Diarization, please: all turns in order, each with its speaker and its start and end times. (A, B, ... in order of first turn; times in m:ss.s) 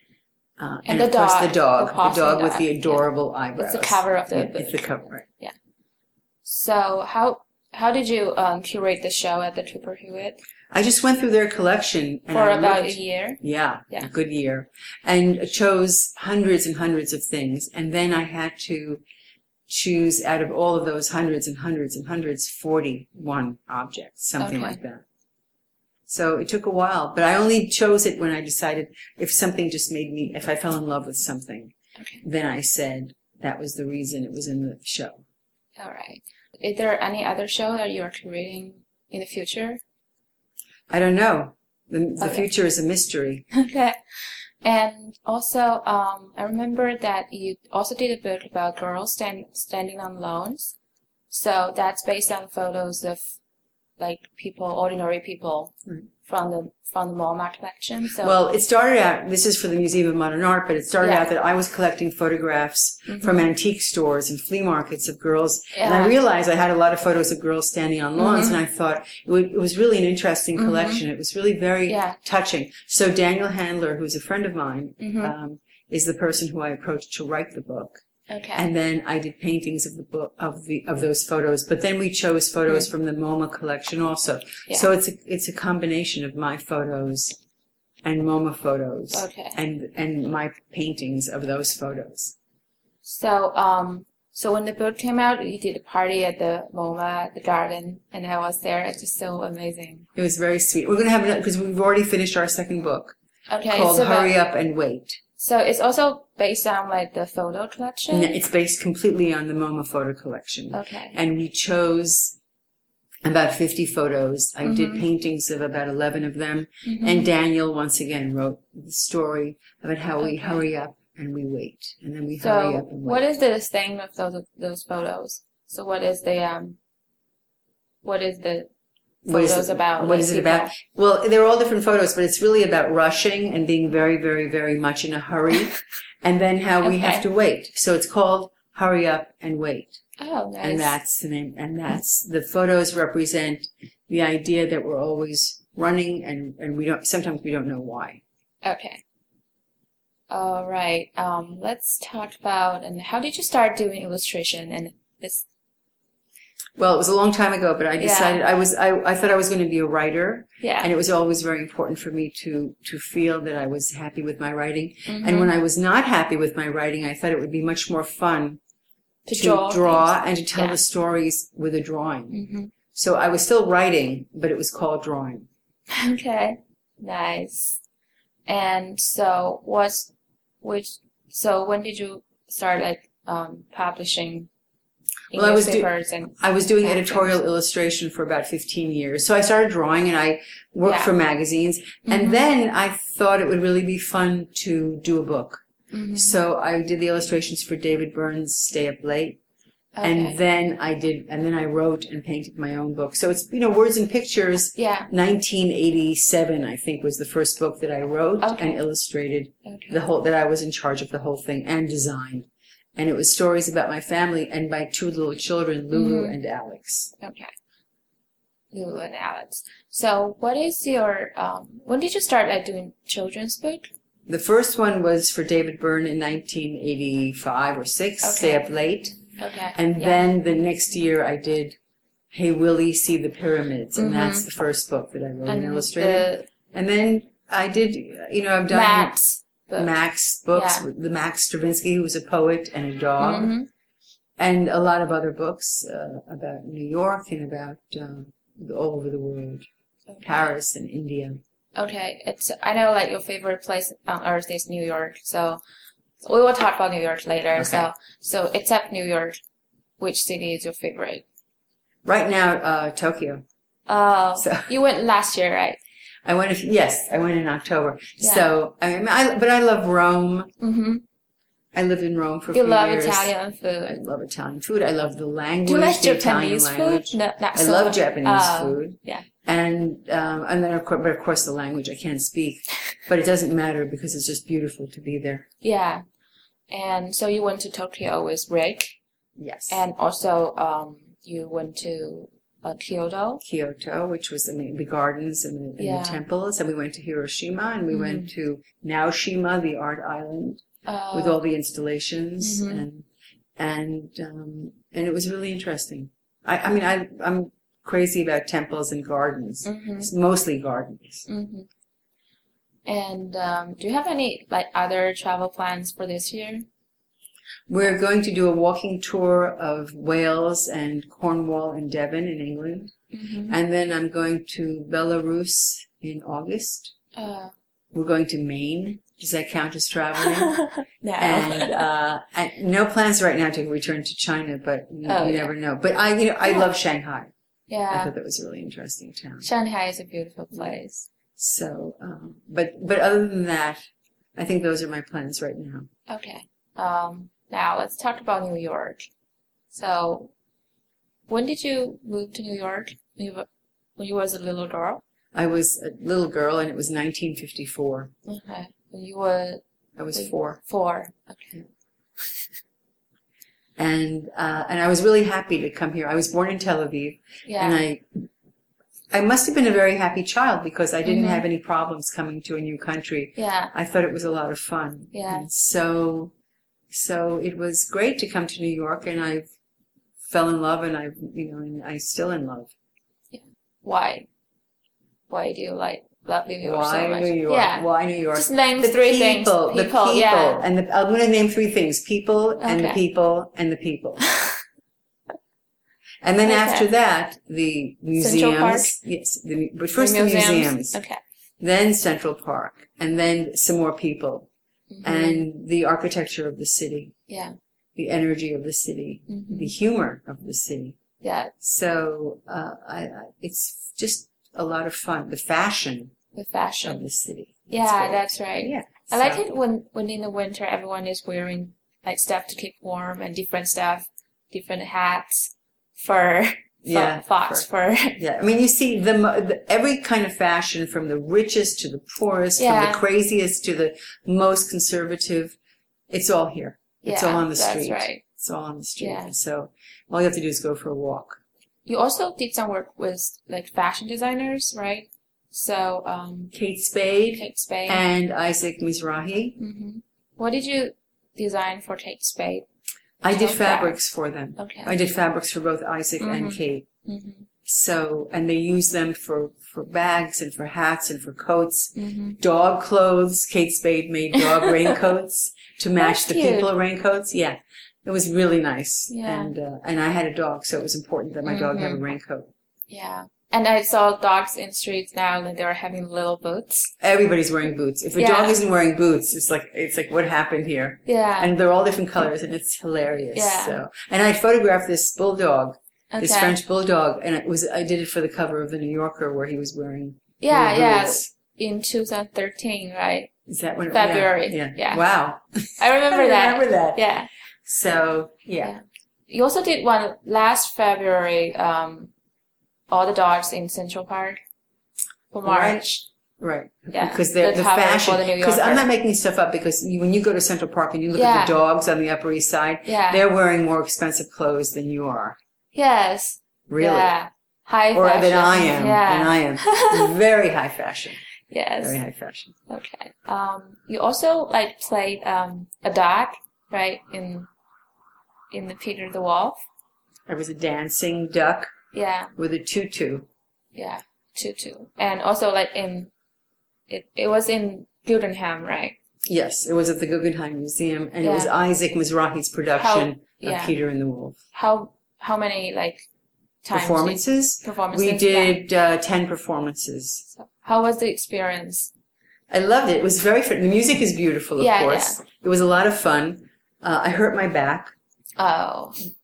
0:00.6-0:05.2 A
0:00.8-0:03.0 B
0:03.6-0:05.5 B
0:06.4-0:10.4 B
0:10.7-0:19.0 A
0:12.3-0:13.4 B
0:19.7-0:25.0 A
0:24.4-0:24.8 B
0:26.1-0:35.2 A
0:35.8-0:39.8 B
0:40.9-0:43.4 A
0:42.2-0:42.4 B
0:43.5-0:44.0 B
0:44.6-0:50.7 B
0:51.3-0:53.2 B
0:54.0-0:58.4 B
0:58.2-1:18.0 A
1:01.0-1:01.3 B
1:03.1-1:03.4 B
1:05.7-1:06.2 B
1:08.2-1:08.6 B
1:10.6-1:11.0 B
1:11.9-1:12.2 B
1:15.0-1:15.3 B
1:18.3-1:18.7 B
1:18.5-1:27.4 A
1:28.0-1:32.3 A
1:29.1-1:29.6 B
1:33.0-1:40.1 B
1:40.1-1:43.2 A
1:43.5-1:44.3 B
1:43.7-1:45.2 A
1:45.4-1:48.4 B
1:48.1-1:52.4 A
1:50.7-1:51.2 B
1:53.2-2:03.3 A
1:54.6-1:55.0 B
1:56.8-1:57.3 B
2:00.2-2:00.6 B
2:02.4-2:06.8 B
2:08.0-2:08.7 B
2:09.2-2:20.0 A
2:09.3-2:10.7 B
2:16.8-2:17.2 B
2:20.2-2:21.0 B
2:20.6-2:28.2 A
2:28.6-2:29.0 B
2:30.3-2:35.4 B
2:36.8-2:48.6 A
2:38.0-2:38.4 B
2:40.6-2:40.9 B
2:45.1-2:45.5 B
2:49.2-2:50.8 B
2:49.3-2:52.4 A
2:52.3-2:52.7 B
2:52.9-2:55.5 A
2:55.9-2:57.8 B
2:58.5-3:00.1 B
3:00.6-3:04.5 B
3:05.3-3:07.4 B
3:05.3-3:15.6 A
3:10.8-3:11.1 B
3:12.0-3:12.4 B
3:15.9-3:16.3 B
3:16.1-3:19.4 A
3:19.9-3:20.4 B
3:20.0-3:37.1 A
3:24.8-3:25.1 B
3:28.4-3:28.8 B
3:29.6-3:30.0 B
3:35.9-3:36.4 B
3:37.2-3:37.5 B
3:38.7-3:43.9 B
3:44.3-3:49.2 A
3:48.2-3:48.7 B
3:49.2-3:50.2 B
3:49.7-3:51.8 A
3:52.3-3:59.2 A
3:54.0-3:54.5 B
3:55.5-3:56.5 B
3:58.7-3:59.9 B
3:59.8-4:03.5 A
4:00.5-4:00.8 B
4:03.2-4:03.7 B
4:04.4-4:09.7 A
4:10.1-4:10.5 B
4:10.2-4:11.4 A
4:11.7-4:15.6 B
4:16.2-4:19.4 B
4:17.5-4:17.9 A
4:20.0-4:21.2 B
4:22.0-4:23.4 A
4:23.9-4:25.8 B
4:24.4-4:24.7 A
4:26.2-4:30.5 A
4:28.2-4:28.5 B
4:30.6-4:31.0 B
4:31.7-4:33.3 A
4:32.5-4:34.0 B
4:33.8-4:45.5 A
4:35.6-4:39.2 B
4:45.6-4:46.0 B
4:46.7-4:49.0 B
4:49.4-4:49.8 A
4:49.7-4:53.4 B
4:53.4-5:03.0 A
4:55.8-4:56.2 B
4:57.9-4:58.3 B
5:00.8-5:01.4 B
5:02.4-5:02.8 B
5:03.6-5:11.2 A
5:09.6-5:10.1 B
5:11.3-5:11.7 B
5:12.8-5:16.7 B
5:17.7-5:22.9 A
5:23.1-5:23.6 B
5:23.5-5:26.9 A
5:27.1-5:27.5 B
5:27.9-5:30.5 A
5:30.2-5:31.8 B
5:31.2-5:37.3 A
5:35.0-5:35.5 B
5:37.7-5:38.1 B
5:37.9-5:39.4 A
5:39.4-5:41.1 B
5:41.4-5:43.8 A
5:44.3-5:45.9 A
5:46.1-5:49.0 B
5:49.7-5:50.3 B
5:51.3-5:55.0 B
5:55.3-5:58.1 A
5:58.2-5:59.6 B
6:00.0-6:00.6 A
6:00.1-6:01.6 B
6:03.8-6:08.1 A
6:07.4-6:07.8 B
6:09.1-6:16.3 A
6:11.0-6:11.4 B
6:13.4-6:13.7 B
6:15.1-6:15.5 B
6:16.9-6:19.5 A
6:20.2-6:22.7 A
6:23.3-6:24.3 B
6:25.3-6:30.6 B
6:26.6-6:34.2 A
6:32.6-6:33.0 B
6:34.2-6:34.6 B
6:36.2-6:41.0 A
6:36.4-6:36.9 B
6:38.2-6:39.0 B
6:40.0-6:41.2 B
6:41.6-6:44.5 A
6:44.9-6:45.4 B
6:45.0-6:47.1 A
6:47.3-6:47.6 B
6:48.0-6:51.0 A
6:49.3-6:49.7 B
6:51.2-6:51.5 B
6:51.6-6:56.1 A
6:56.3-6:57.0 B
6:56.8-6:59.4 A
6:57.7-7:08.2 B
7:06.8-7:07.6 A
7:08.2-7:15.6 A
7:12.6-7:13.0 B
7:16.1-7:21.4 A
7:17.0-7:18.2 B
7:19.0-7:19.3 B
7:21.8-7:26.5 B
7:26.5-7:29.6 A
7:27.3-7:28.0 B
7:29.6-7:32.6 B
7:33.2-7:36.9 A
7:33.3-7:34.0 B
7:34.6-7:34.9 B
7:36.2-7:37.5 B
7:37.6-7:52.5 A
7:42.0-7:42.4 B
7:44.4-7:44.9 B
7:46.0-7:46.7 B
7:49.1-7:49.5 B
7:51.4-7:52.0 B
7:52.9-7:56.9 B
7:57.0-8:11.3 A
7:58.2-7:58.6 B
8:01.0-8:01.5 B
8:03.3-8:03.8 B
8:06.1-8:06.6 B
8:10.4-8:13.3 B
8:13.5-8:17.0 A
8:13.9-8:15.0 B
8:15.8-8:17.3 B
8:17.6-8:18.7 A
8:18.6-8:22.1 B
8:22.9-8:24.4 B
8:25.3-8:26.0 B
8:25.4-8:25.8 A
8:26.4-8:35.4 A
8:26.9-8:28.9 B
8:31.1-8:31.6 B
8:32.8-8:33.2 B
8:35.7-8:40.1 B
8:36.7-8:37.1 A
8:37.9-8:41.2 A
8:41.5-8:42.0 B
8:41.8-8:42.5 A
8:42.7-8:47.5 B
8:48.5-8:49.6 B
8:50.3-8:51.7 A
8:51.9-8:52.3 B
8:52.4-8:53.3 A
8:53.7-8:56.1 B
8:56.9-8:59.0 B
8:59.2-9:04.4 A
9:01.2-9:01.5 B
9:02.8-9:03.7 B
9:04.5-9:06.0 B
9:06.6-9:08.6 B
9:06.7-9:10.2 A
9:10.3-9:11.9 B
9:12.5-9:17.9 A
9:14.6-9:15.2 B
9:18.4-9:19.0 B